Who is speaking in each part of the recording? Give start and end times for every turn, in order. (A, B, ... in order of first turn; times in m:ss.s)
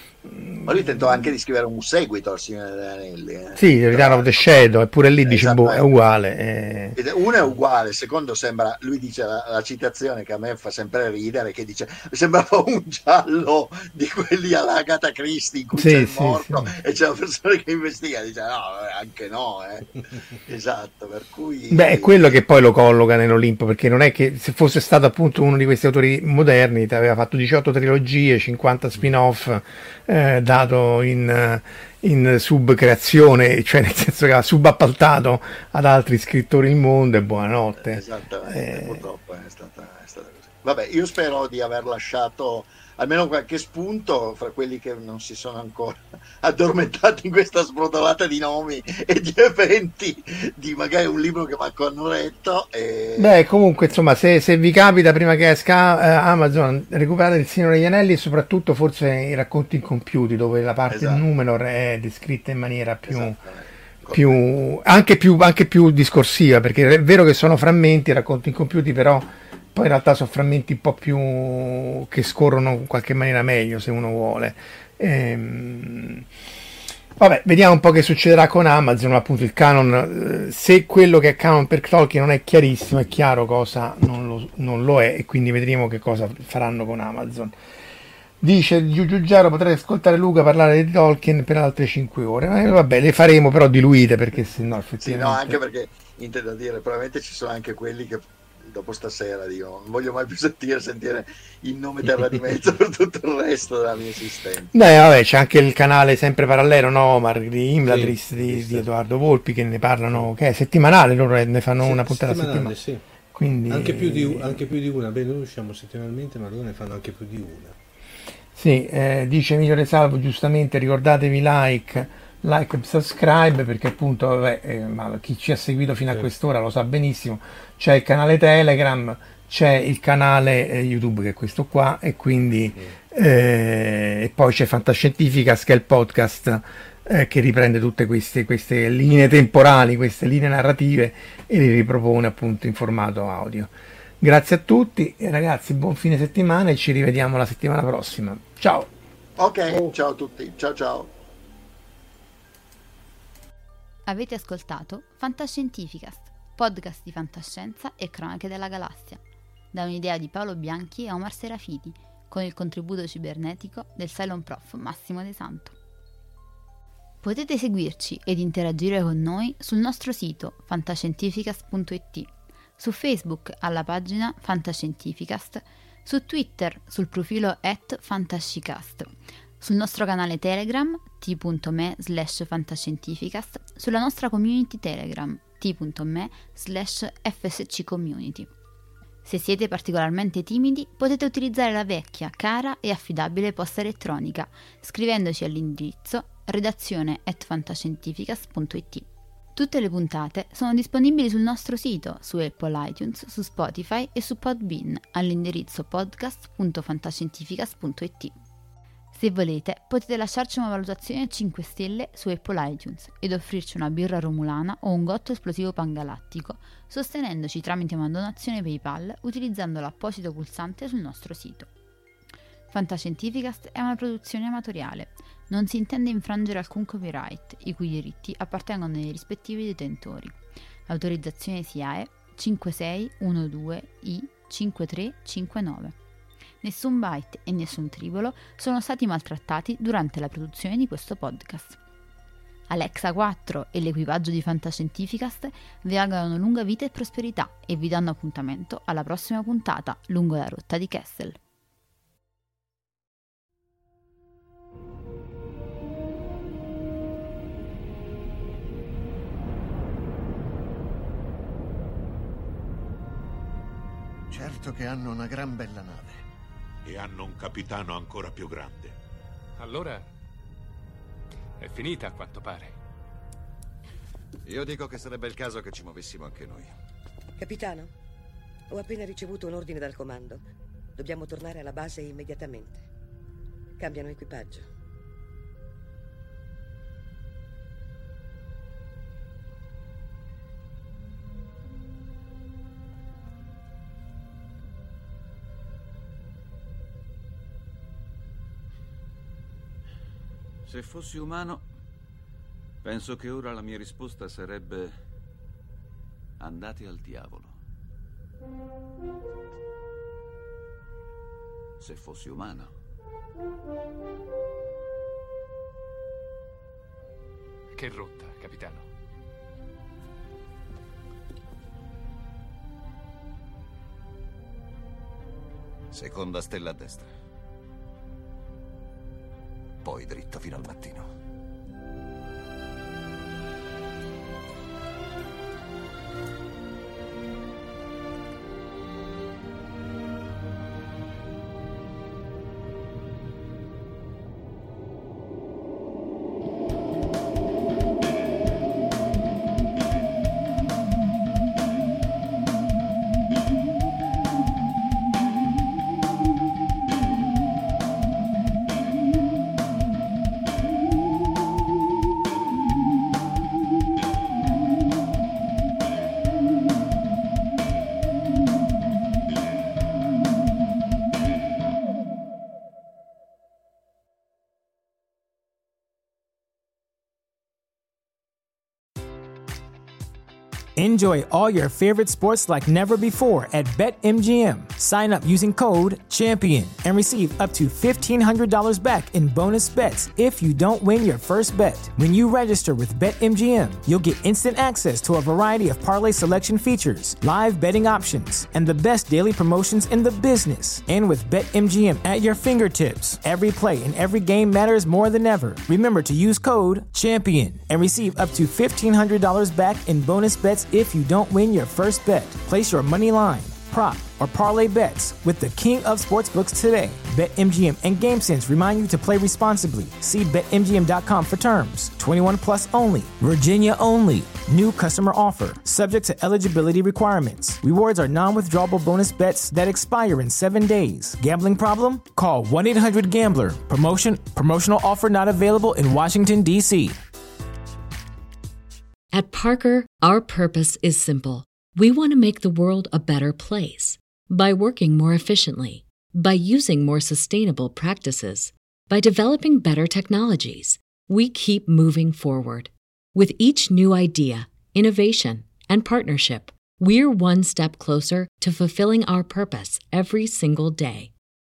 0:00.2-0:01.2 A
0:00.6-0:04.5 B
0:03.6-0:07.0 A
0:05.2-0:05.8 B
0:07.0-0:22.4 B
0:15.7-0:16.7 A
0:21.7-0:39.0 A
0:37.8-0:53.4 B
0:53.2-1:03.4 A
1:00.9-1:01.2 B
1:03.1-1:04.4 B
1:04.1-1:16.2 A
1:17.2-1:27.6 A
1:28.4-1:35.6 A
1:35.0-1:44.7 B
1:44.7-1:52.7 A
1:47.8-1:48.9 C
1:51.8-1:53.0 C
1:53.3-1:54.6 A
1:53.7-1:57.8 C
1:58.5-2:28.9 A
2:29.4-2:31.1 B
2:34.1-2:45.7 D
2:47.2-3:08.5 D
3:09.2-3:28.4 D
3:29.1-3:41.7 D
3:42.7-3:50.4 D
3:50.9-3:56.0 D
3:56.6-4:01.8 D
4:02.7-4:11.4 D
4:24.3-4:26.2 E
4:26.8-4:29.0 F
4:29.6-4:30.0 G
4:31.6-4:32.7 G
4:34.4-4:36.7 E
4:37.4-4:37.9 H
4:38.7-4:40.4 H
4:41.0-4:42.8 H
4:43.8-4:44.6 H
5:00.6-5:01.6 I
5:02.8-5:04.9 I
5:06.4-5:07.6 I
5:11.8-5:12.7 I
5:17.7-5:18.8 G
5:25.9-5:27.1 E
5:29.8-5:31.1 E
6:20.8-7:17.0 J
7:19.1-7:41.1 K